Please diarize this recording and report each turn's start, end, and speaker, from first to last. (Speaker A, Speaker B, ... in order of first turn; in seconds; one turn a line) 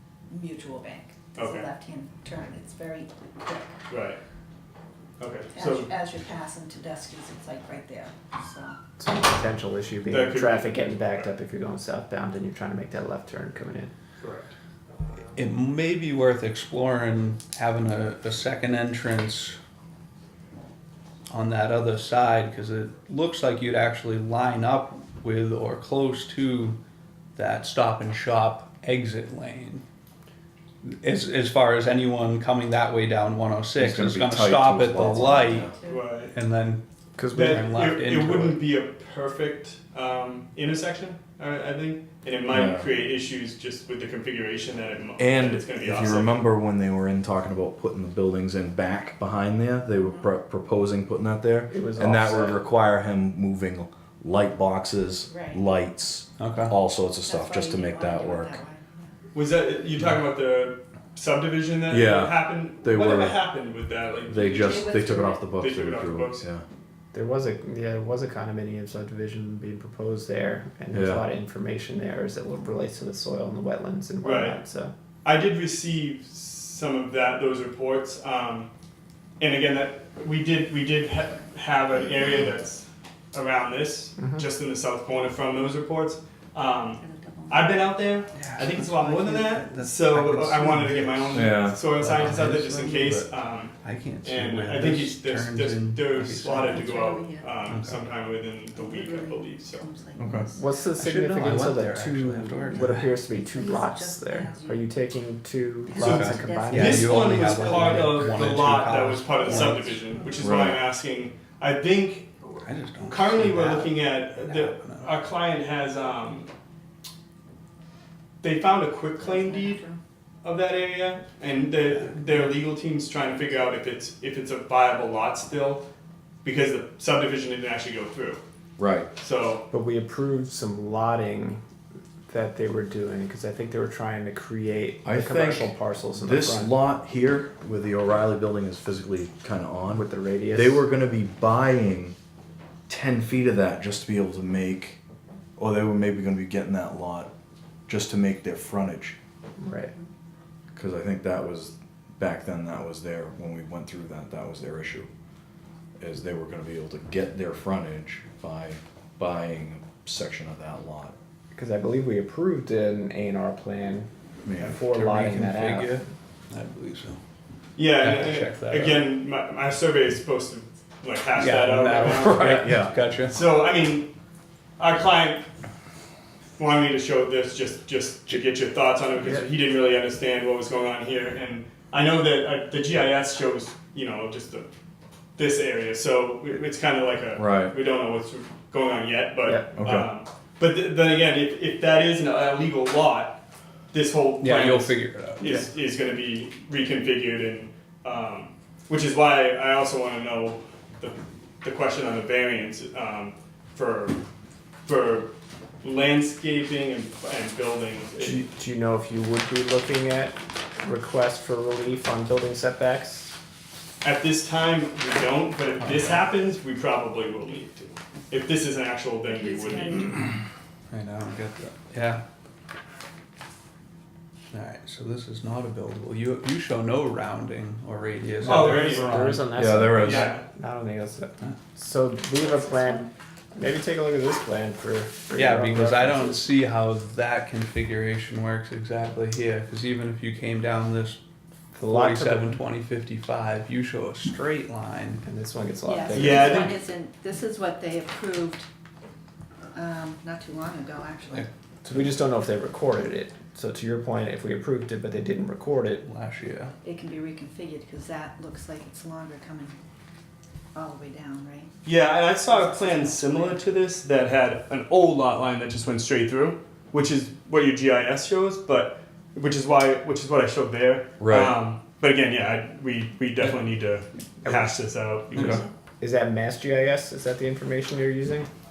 Speaker A: 0.3-3.8
Speaker B: 1.4-1.7
Speaker B: 3.9-4.2
Speaker B: 5.2-5.9
Speaker A: 5.5-8.8
Speaker C: 9.0-13.9
Speaker B: 10.1-11.3
Speaker B: 14.2-14.6
Speaker D: 15.3-19.6
Speaker D: 21.3-26.8
Speaker D: 27.4-29.8
Speaker D: 30.9-35.7
Speaker E: 33.8-35.7
Speaker A: 35.0-36.1
Speaker B: 35.8-36.4
Speaker D: 36.3-36.8
Speaker C: 37.2-37.6
Speaker D: 37.3-38.6
Speaker B: 37.3-46.5
Speaker E: 42.5-42.9
Speaker E: 45.2-58.6
Speaker C: 51.7-52.6
Speaker A: 55.3-55.6
Speaker D: 56.4-56.8
Speaker A: 57.2-59.1
Speaker B: 59.3-66.5
Speaker E: 61.9-63.4
Speaker E: 64.2-66.7
Speaker A: 64.5-65.4
Speaker C: 67.1-74.9
Speaker E: 70.9-71.2
Speaker B: 74.2-74.6
Speaker B: 75.2-78.7
Speaker B: 79.4-93.7
Speaker C: 84.2-84.5
Speaker A: 87.0-87.8
Speaker D: 88.3-96.7
Speaker E: 91.3-91.8
Speaker B: 94.2-99.9
Speaker A: 96.6-97.6
Speaker D: 97.7-98.0
Speaker A: 98.7-100.7
Speaker E: 100.2-100.5
Speaker C: 100.5-107.2
Speaker D: 100.9-103.2
Speaker A: 102.7-104.9
Speaker A: 105.9-108.3
Speaker D: 106.0-110.0
Speaker B: 106.0-116.5
Speaker A: 109.5-110.4
Speaker E: 110.4-110.8
Speaker D: 112.6-115.1
Speaker B: 118.4-119.8
Speaker A: 119.2-120.0
Speaker B: 120.4-125.9
Speaker B: 126.4-128.4
Speaker E: 128.8-129.1
Speaker B: 129.2-129.7
Speaker C: 129.7-131.6
Speaker C: 132.3-136.8
Speaker E: 135.1-142.2
Speaker C: 139.9-140.8
Speaker E: 142.9-145.0
Speaker E: 145.6-147.3
Speaker E: 147.9-149.2
Speaker C: 149.6-149.9
Speaker E: 150.7-155.1
Speaker E: 156.0-161.2
Speaker C: 161.5-166.0
Speaker E: 164.4-164.8
Speaker D: 164.7-167.2
Speaker B: 167.8-172.6
Speaker D: 168.0-169.1
Speaker D: 171.3-173.4
Speaker E: 172.3-173.0
Speaker B: 173.3-174.1
Speaker B: 174.8-175.4
Speaker B: 176.6-184.7
Speaker B: 185.4-204.2
Speaker E: 187.4-187.8
Speaker C: 189.4-189.7
Speaker E: 189.8-190.1
Speaker D: 194.4-195.6
Speaker B: 204.8-208.5
Speaker C: 208.2-213.3
Speaker B: 214.0-220.3
Speaker D: 215.8-216.3
Speaker A: 219.2-220.2
Speaker D: 220.9-222.2
Speaker D: 224.5-229.6
Speaker B: 228.4-229.2
Speaker C: 228.4-236.5
Speaker E: 229.5-230.4
Speaker B: 229.9-230.4
Speaker D: 235.3-241.2
Speaker C: 241.8-242.6
Speaker D: 241.8-245.2
Speaker C: 245.2-246.8
Speaker A: 245.8-248.7
Speaker B: 246.1-246.8
Speaker A: 249.7-251.5
Speaker C: 251.8-256.0
Speaker D: 256.0-256.7
Speaker A: 256.8-259.8
Speaker A: 260.7-261.7
Speaker B: 261.9-275.7
Speaker A: 262.5-263.6
Speaker E: 271.2-271.6
Speaker C: 274.4-274.7
Speaker D: 275.3-275.6
Speaker C: 276.0-278.5